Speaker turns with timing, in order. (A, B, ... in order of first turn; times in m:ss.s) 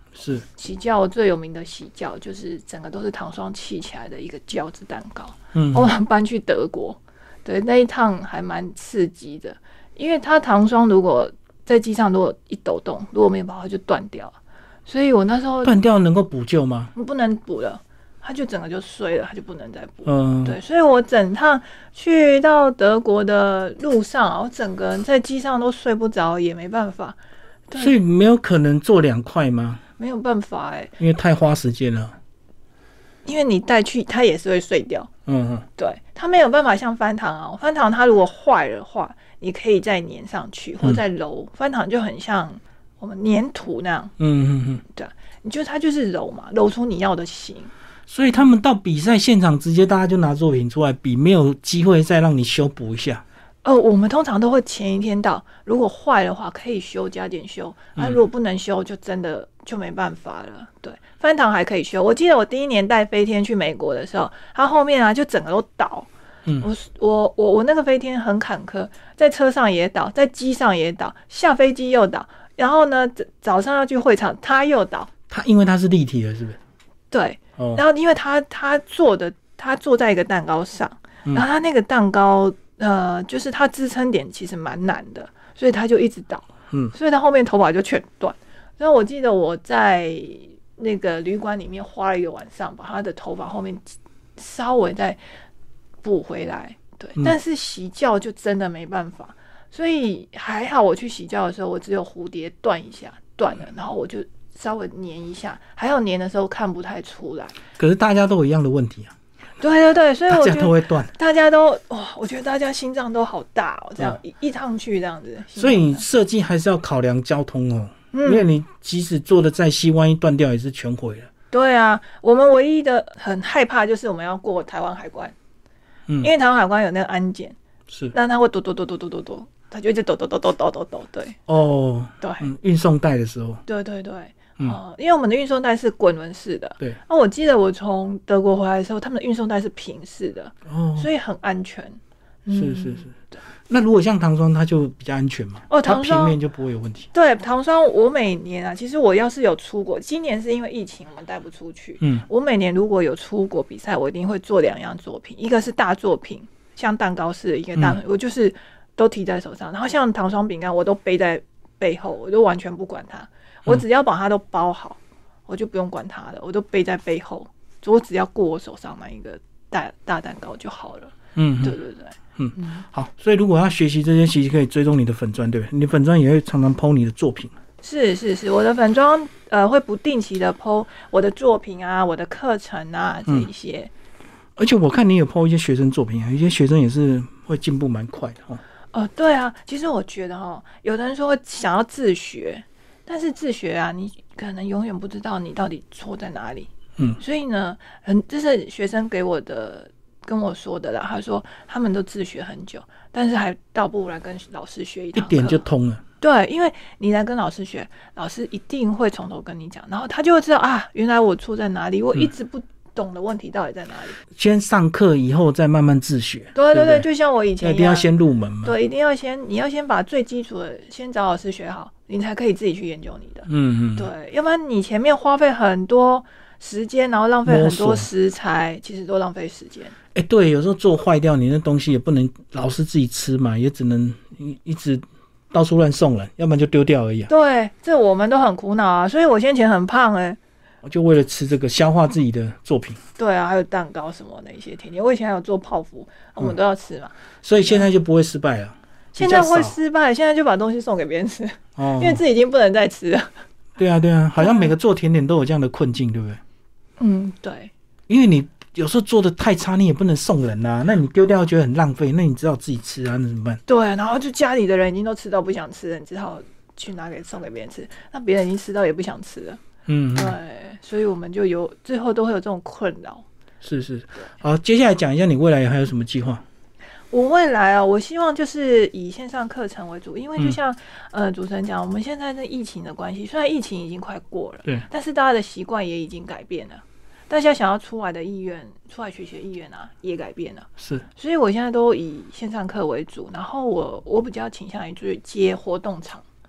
0:00.2-0:00.4 A
0:00.6-0:15.8 B
0:05.5-0:05.9 A
0:15.6-0:16.9 A
0:17.0-0:27.2 B
0:20.0-0:20.6 A
0:27.7-0:27.9 B
0:27.7-0:29.8 A
0:30.0-0:31.0 B
0:31.0-0:32.2 A
0:33.2-0:35.1 B
0:35.3-0:35.7 A
0:35.8-0:44.1 B
0:44.2-0:44.8 A
0:44.9-0:47.7 B
0:48.1-0:53.2 A
0:53.6-1:06.1 B
1:06.6-1:15.1 B
1:15.3-1:16.6 A
1:17.1-1:35.2 B
1:36.0-1:47.6 B
1:47.8-1:49.1 A
1:49.6-1:56.0 B
1:50.3-1:51.1 A
1:55.6-2:01.3 A
1:58.1-1:58.5 B
2:01.5-2:05.4 B
2:06.2-2:07.6 B
2:07.9-2:08.1 A
2:08.1-2:11.4 B
2:11.5-2:13.6 A
2:12.2-2:12.5 B
2:13.7-2:23.4 B
2:20.7-2:21.1 A
2:22.5-2:23.2 A
2:23.7-2:27.1 A
2:25.7-2:26.4 B
2:27.1-2:52.8 B
2:32.0-2:32.3 A
2:51.4-2:51.8 A
2:52.4-2:57.5 A
2:57.8-3:03.9 B
3:04.6-3:08.6 A
3:08.9-3:25.7 B
3:25.2-3:26.0 A
3:26.2-3:34.2 B
3:34.3-3:37.1 A
3:36.6-3:38.1 B
3:37.6-3:38.8 A
3:38.6-3:50.0 B
3:43.5-3:44.1 A
3:47.5-3:48.1 A
3:50.1-3:57.3 A
3:57.3-4:00.4 B
4:00.8-4:03.0 A
4:03.2-4:07.1 B
4:07.4-4:09.8 A
4:09.2-4:13.3 B
4:11.8-4:12.2 A
4:13.8-4:16.4 A
4:14.4-4:14.7 B
4:17.0-4:17.7 B
4:18.1-4:23.6 A
4:23.7-4:29.6 B
4:29.9-4:30.4 A
4:30.1-4:33.2 B
4:33.6-4:36.4 A
4:37.1-4:56.2 B
4:50.8-4:51.1 A